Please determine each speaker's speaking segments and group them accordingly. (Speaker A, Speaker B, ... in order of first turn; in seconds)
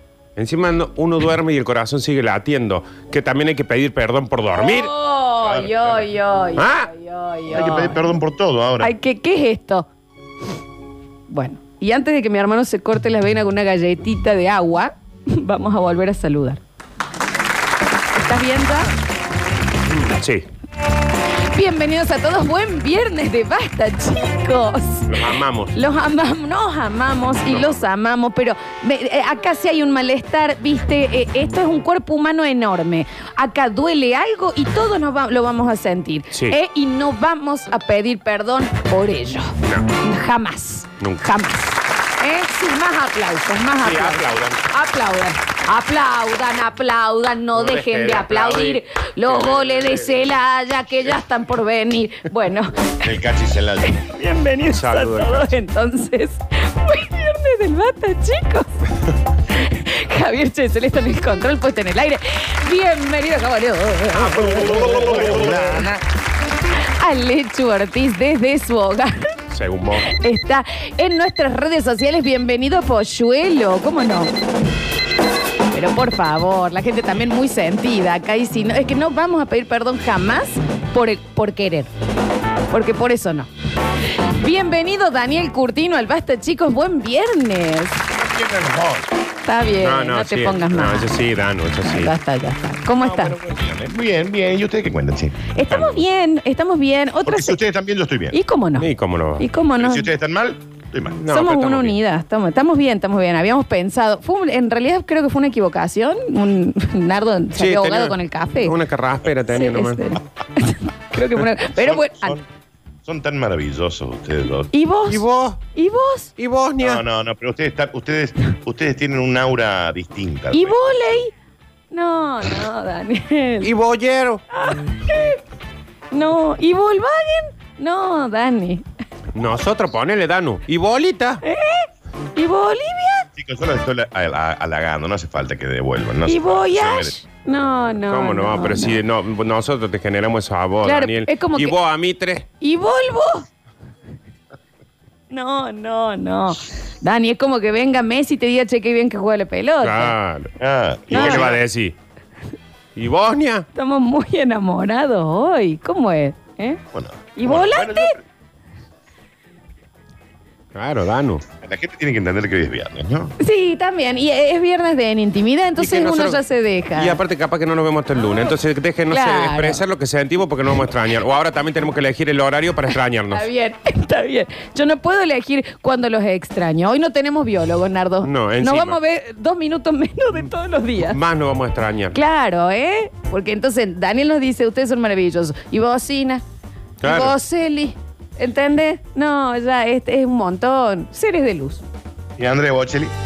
Speaker A: 0.3-4.9, 6.5-6.9, 19.9-20.4, 25.1-25.8, 43.8-44.6, 47.5-50.2, 54.7-55.5, 64.2-66.0, 69.5-70.1, 89.8-92.1, 95.7-96.0, 98.8-99.5, 101.1-102.0, 107.5-110.2, 115.1-115.6, 116.4-117.0, 123.6-124.4, 129.3-131.4, 138.1-142.4, 149.8-150.5, 151.1-151.9, 152.9-153.7, 160.7-161.4, 165.8-166.4, 166.9-173.4, 178.2-179.0, 181.1-182.2, 187.0-187.3
Speaker B: 4.5-8.0, 8.8-9.9, 11.3-16.6, 18.1-18.9, 21.5-53.0, 53.8-58.7, 59.5-65.3, 67.0-69.3, 70.0-74.3, 75.7-81.9, 82.7-83.5, 84.3-88.0, 89.4-91.2, 91.8-93.4, 95.5-97.6, 98.3-100.1, 101.3-108.7, 109.5-112.4, 114.7-115.2, 115.7-116.3, 120.5-121.3, 121.9-123.7, 124.5-125.4, 126.1-128.8, 131.4-133.2, 136.2-139.0, 140.8-141.8, 142.6-143.4, 145.3-150.2, 151.1-151.6, 153.7-156.8, 157.3-158.1, 163.4-167.2, 169.1-169.8, 173.3-181.2, 182.1-186.4, 187.0-191.8
Speaker C: 5.4-6.0, 7.5-8.9, 53.0-54.0, 64.8-65.9, 88.2-89.1, 93.0-95.4, 97.2-98.3, 99.8-101.2, 111.7-112.4, 113.0-114.7, 116.8-120.7, 133.3-137.1, 150.6-151.6, 156.9-158.2, 161.6-163.3, 192.4-193.1